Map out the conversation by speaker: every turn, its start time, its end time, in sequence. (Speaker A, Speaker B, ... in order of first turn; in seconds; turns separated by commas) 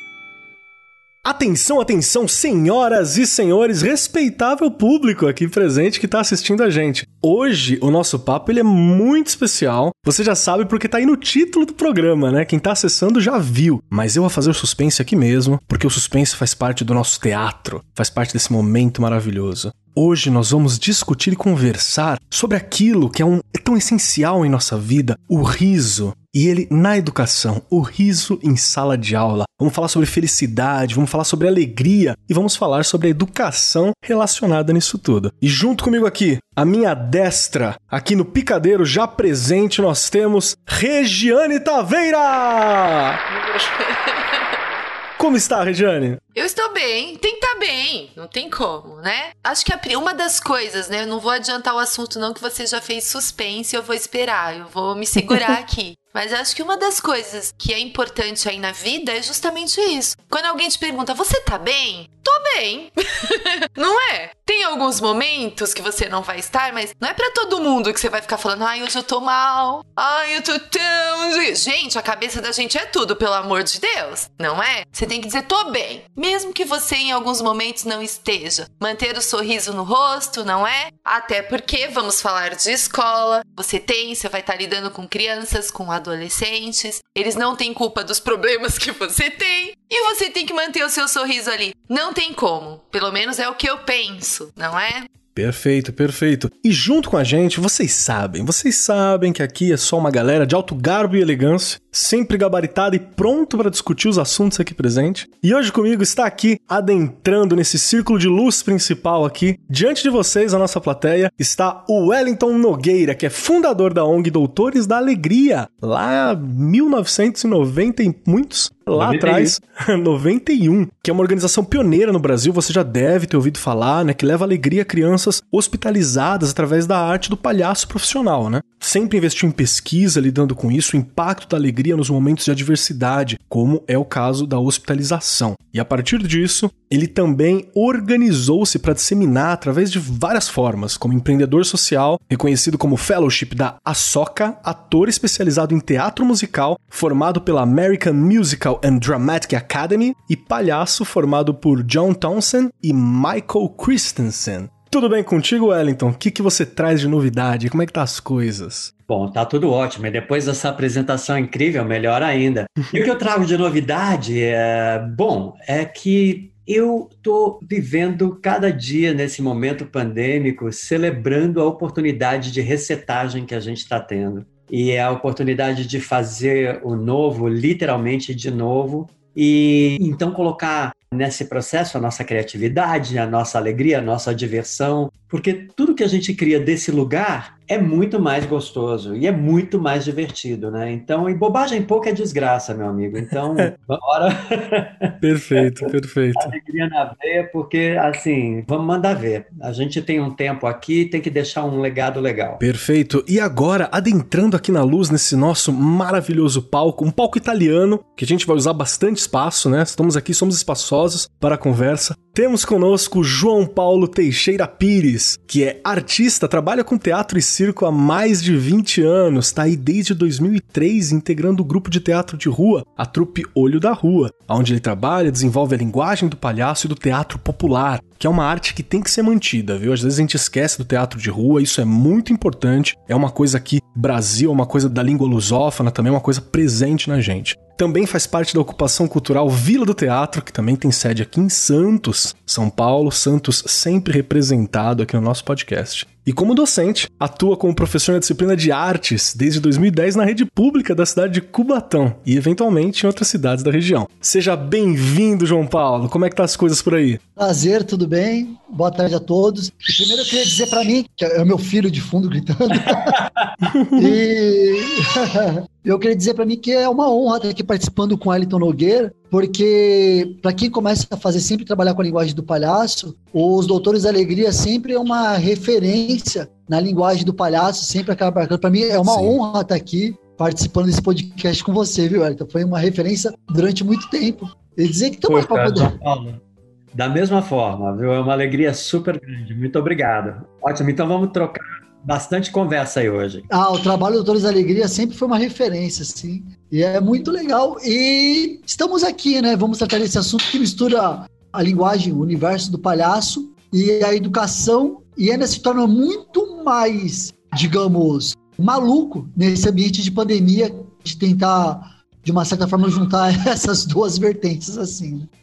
Speaker A: 1.2-43.2, Speaker B: 43.3-44.5, Speaker A: 45.2-46.2, Speaker B: 46.3-95.1, Speaker A: 95.3-158.9, Speaker C: 119.0-119.5, Speaker C: 159.1-202.6, Speaker A: 195.2-196.5, Speaker A: 202.6-257.2, Speaker D: 257.4-263.2, Speaker C: 262.9-263.5, Speaker A: 263.6-264.2, Speaker D: 264.0-285.9, Speaker A: 279.0-279.4, Speaker C: 285.2-286.4, Speaker C: 286.9-293.5, Speaker D: 293.5-315.3